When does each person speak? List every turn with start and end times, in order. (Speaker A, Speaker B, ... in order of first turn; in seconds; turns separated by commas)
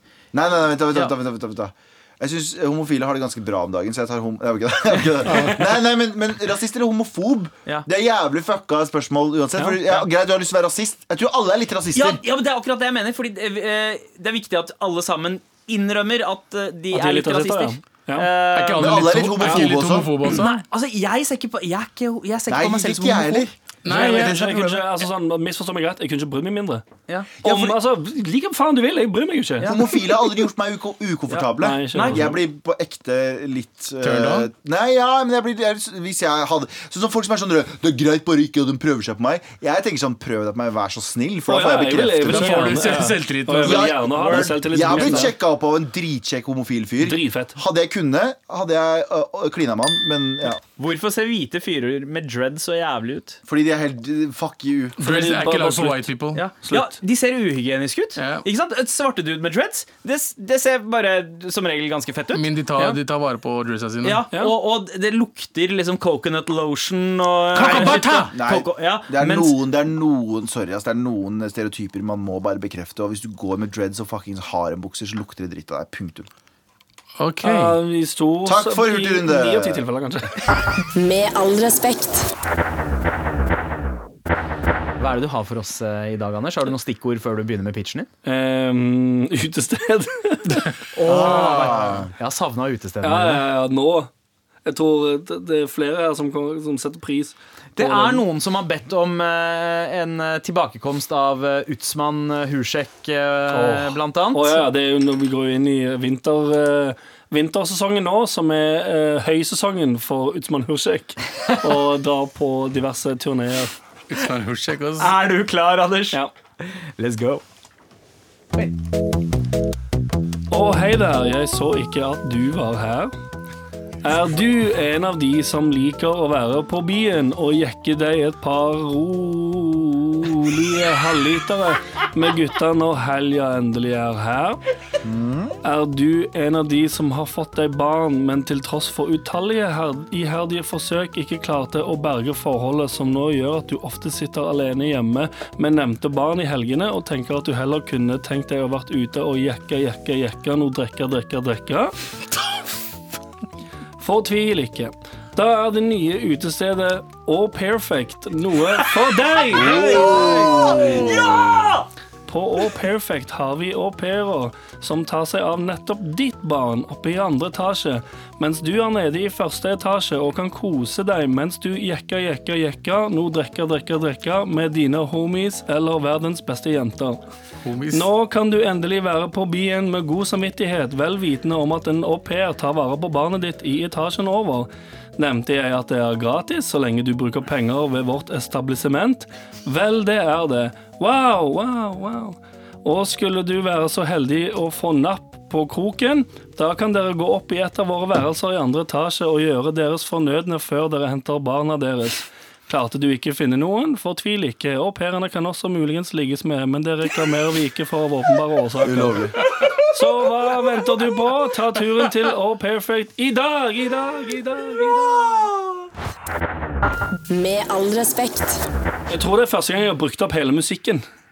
Speaker A: 0.3-12.2, Speaker B: 5.2-5.6, Speaker B: 11.9-19.1, Speaker C: 16.9-18.3, Speaker D: 18.5-20.6, Speaker A: 18.8-20.1, Speaker B: 20.2-24.4, Speaker A: 22.5-23.5, Speaker D: 23.8-24.8, Speaker C: 23.9-26.9, Speaker B: 27.1-27.8, Speaker C: 27.4-29.7, Speaker A: 29.6-43.0, Speaker B: 31.3-32.3, Speaker C: 31.6-32.4, Speaker D: 34.0-34.5, Speaker C: 41.5-45.3, Speaker D: 42.2-43.9, Speaker A: 43.6-50.6, Speaker B: 44.1-45.3, Speaker C: 47.0-47.6, Speaker B: 50.8-53.4, Speaker A: 53.5-55.0, Speaker C: 55.0-56.1, Speaker D: 55.0-56.5, Speaker B: 56.4-63.0, Speaker C: 56.7-56.9, Speaker D: 58.2-58.5, Speaker D: 62.3-64.2, Speaker B: 64.0-69.6, Speaker D: 67.5-68.3, Speaker A: 67.6-76.3, Speaker D: 77.2-77.8, Speaker C: 77.4-80.3, Speaker A: 78.5-79.8, Speaker E: 81.0-82.3, Speaker B: 85.0-88.1, Speaker C: 88.2-90.7, Speaker B: 91.0-93.4, Speaker A: 91.1-92.1, Speaker D: 91.1-92.0, Speaker C: 93.0-94.1, Speaker C: 94.7-98.2, Speaker B: 97.8-104.6, Speaker C: 103.5-113.7, Speaker D: 114.1-115.1, Speaker B: 115.0-117.4, Speaker C: 120.5-123.1, Speaker C: 124.0-134.6, Speaker A: 135.0-135.5, Speaker C: 135.6-151.9, Speaker C: 154.0-160.3, Speaker A: 159.6-161.6, Speaker B: 159.6-161.9, Speaker C: 162.3-177.2, Speaker D: 177.7-178.1, Speaker C: 177.9-209.2, Speaker A: 208.8-209.4, Speaker C: 209.9-215.5, Speaker E: 217.3-218.6, Speaker C: 219.1-221.0